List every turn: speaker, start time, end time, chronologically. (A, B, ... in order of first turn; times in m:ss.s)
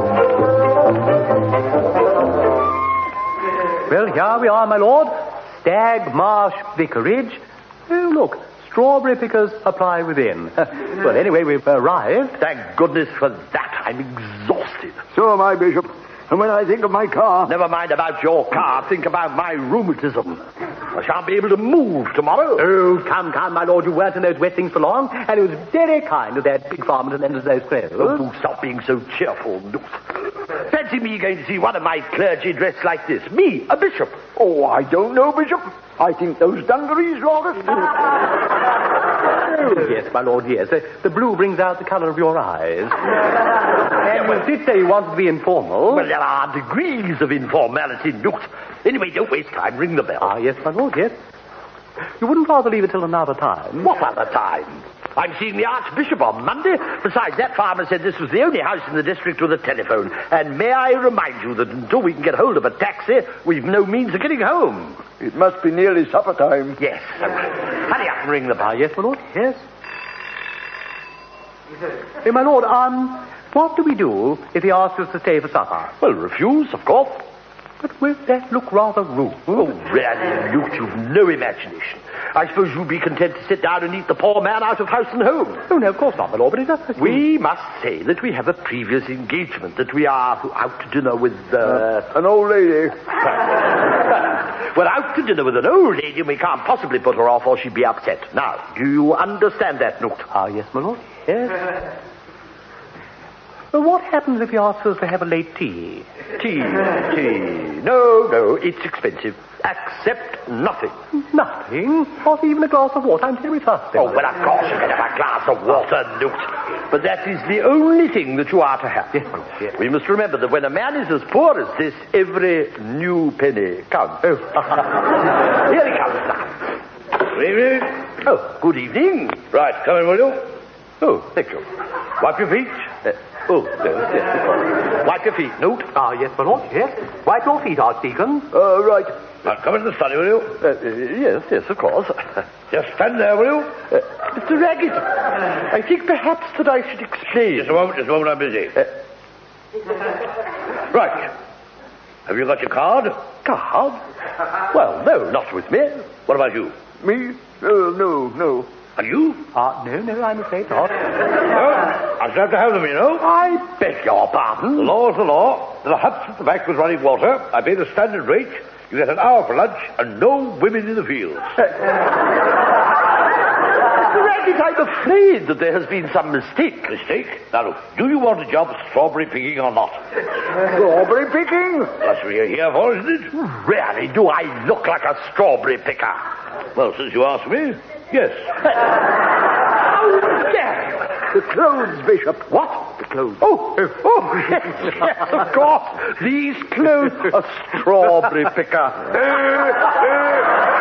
0:03.9-0:12.4 A
0:12.4-0:15.0 B
0:15.1-0:17.5 C
0:17.5-0:20.4 B
0:20.9-0:22.6 B
0:22.6-0:28.2 A
0:28.0-0:30.0 B
0:30.6-0:34.2 B
0:34.4-0:38.1 C
0:39.5-0:43.0 A
0:44.0-0:46.1 A
0:45.9-0:50.3 B
0:50.2-0:51.1 A
0:52.2-0:53.9 A
0:53.8-1:05.0 B
1:05.2-1:06.8 C
1:06.8-1:08.7 B
1:08.6-1:09.6 A
1:12.2-1:15.9 A
1:16.0-1:17.2 B
1:17.8-1:19.7 A
1:19.5-1:25.6 B
1:25.7-1:27.2 A
1:27.0-1:32.1 B
1:31.6-1:33.0 C
1:33.4-1:40.3 B
1:40.3-1:41.7 A
1:43.7-1:46.1 A
1:46.4-1:50.9 B
1:51.1-1:54.2 A
1:54.0-2:05.0 B
2:05.6-2:06.6 B
2:07.3-2:07.9 D
2:08.2-2:09.4 B
2:09.5-2:10.4 D
2:11.0-2:11.6 B
2:12.2-2:12.6 D
2:12.4-2:15.9 B
2:15.9-2:18.5 A
2:18.6-2:19.1 C
2:19.4-2:20.6 D
2:20.6-2:22.4 B
2:22.7-2:23.8 D
2:23.9-2:27.8 B
2:27.6-2:28.8 D
2:30.9-2:31.3 D
2:32.3-2:33.2 D
2:33.4-2:34.0 B
2:34.7-2:36.7 B
2:37.0-2:38.7 C
2:39.0-2:39.4 B
2:39.5-2:41.1 A
2:41.5-2:43.2 D
2:43.2-2:44.9 B
2:44.8-2:51.6 D
2:53.9-2:56.9 B
2:56.9-3:00.0 D
3:00.6-3:01.9 C
3:02.0-3:03.3 D
3:03.3-3:06.2 B
3:06.8-3:08.6 D
3:10.0-3:11.1 B
3:11.3-3:13.4 C
3:12.6-3:20.4 B